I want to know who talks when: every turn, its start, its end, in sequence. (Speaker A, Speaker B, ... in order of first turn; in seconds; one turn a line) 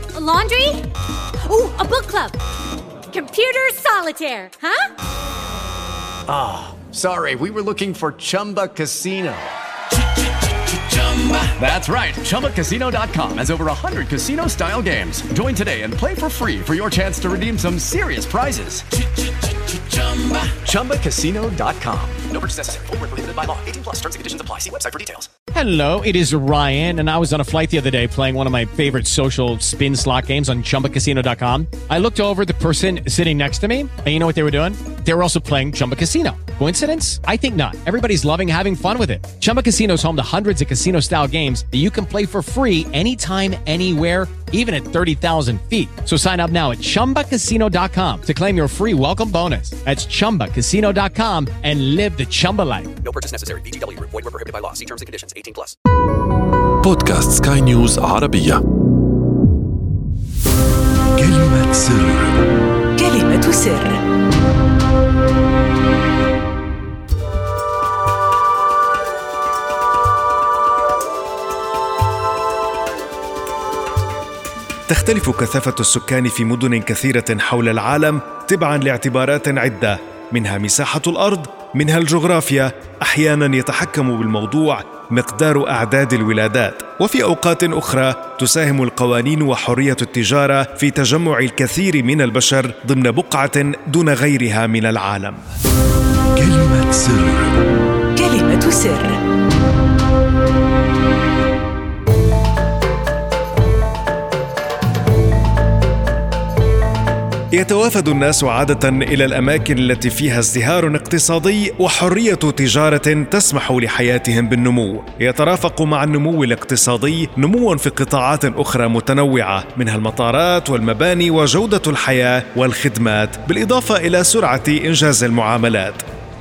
Speaker A: 0.1-0.8
Speaker A: 1.4-2.4
Speaker A: 3.1-4.9
Speaker B: 6.3-9.6
Speaker B: 10.7-18.9
Speaker B: 20.1-23.0
Speaker C: 22.9-23.3
Speaker B: 23.5-25.3
Speaker D: 25.5-53.0
Speaker C: 53.0-55.7
Speaker E: 56.8-58.6
Speaker E: 61.2-62.4
Speaker B: 63.0-63.7
Speaker F: 74.9-95.5
Speaker A: 98.2-99.2
Speaker F: 107.5-126.0